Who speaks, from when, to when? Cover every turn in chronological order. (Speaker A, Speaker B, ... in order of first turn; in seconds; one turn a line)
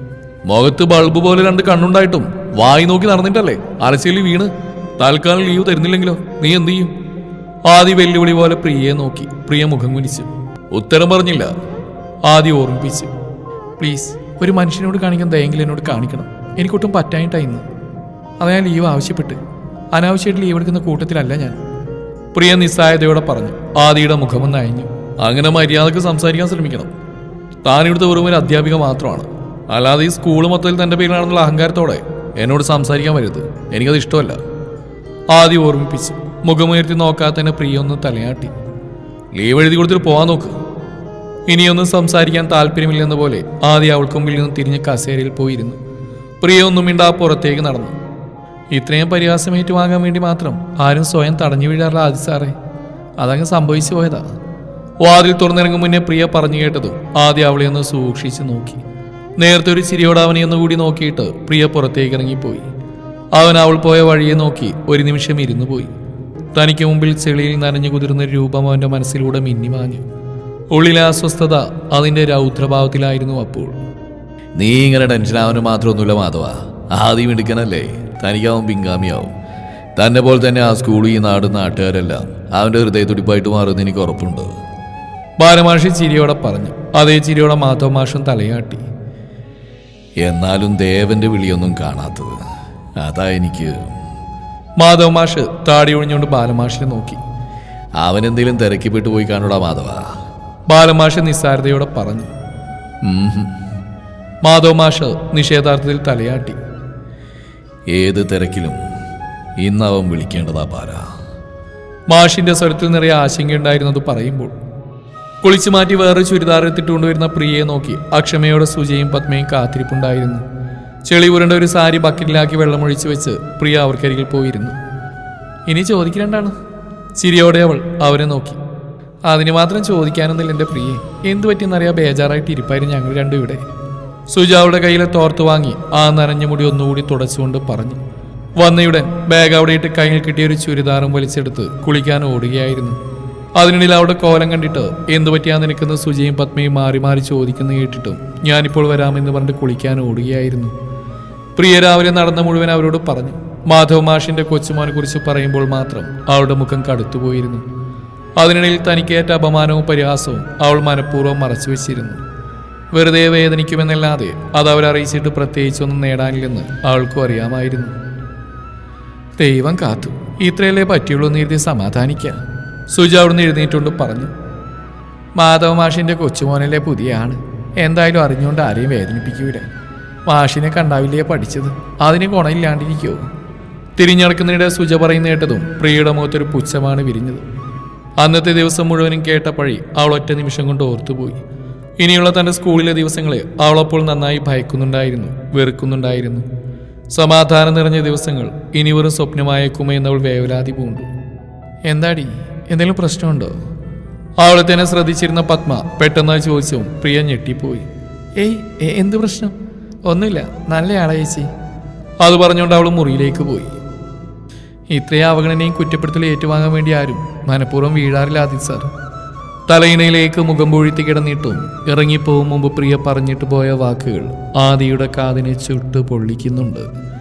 Speaker A: 0.5-6.9
Speaker A: 7.7-11.5
Speaker A: 12.2-13.1
Speaker A: 13.8-17.6
Speaker A: 18.4-19.4
Speaker A: 19.9-21.6
Speaker A: 22.3-26.9
Speaker A: 27.6-34.4
Speaker A: 35.3-38.5
Speaker A: 39.3-40.6
Speaker A: 41.5-45.8
Speaker A: 46.4-48.0
Speaker A: 48.7-52.5
Speaker A: 53.2-54.3
Speaker A: 55.0-58.8
Speaker A: 59.4-62.7
Speaker A: 63.3-65.9
Speaker A: 66.5-70.0
Speaker A: 70.7-73.8
Speaker A: 74.6-79.2
Speaker B: 74.6-75.4
Speaker B: 76.0-76.4
Speaker B: 77.0-79.3
Speaker B: 80.0-84.5
Speaker A: 80.0-80.4
Speaker A: 81.2-81.5
Speaker A: 82.0-82.9
Speaker A: 85.4-88.8
Speaker B: 90.2-92.3
Speaker A: 91.0-92.1
Speaker B: 93.0-93.8
Speaker A: 94.8-97.2
Speaker B: 98.0-100.0
Speaker A: 98.0-100.0
Speaker A: 100.7-102.3
Speaker A: 103.0-103.5
Speaker A: 104.4-106.6
Speaker A: 107.9-108.8
Speaker B: 108.0-108.4
Speaker A: 109.6-111.0
Speaker B: 109.7-110.5
Speaker A: 112.1-114.5
Speaker A: 115.4-120.4
Speaker A: 121.0-124.8
Speaker A: 125.7-126.5
Speaker A: 127.2-128.6
Speaker A: 129.2-133.6
Speaker A: 134.3-138.0
Speaker A: 138.6-143.0
Speaker A: 143.6-150.7
Speaker A: 151.6-157.7
Speaker A: 158.4-162.2
Speaker A: 162.9-167.9
Speaker A: 169.4-174.3
Speaker A: 175.3-179.7
Speaker A: 180.2-183.2
Speaker A: 183.9-187.4
Speaker A: 188.2-191.4
Speaker A: 192.0-196.4
Speaker A: 197.1-201.1
Speaker A: 201.9-203.5
Speaker A: 204.4-209.5
Speaker A: 210.1-211.5
Speaker A: 212.2-213.7
Speaker A: 214.9-218.9
Speaker A: 219.7-226.9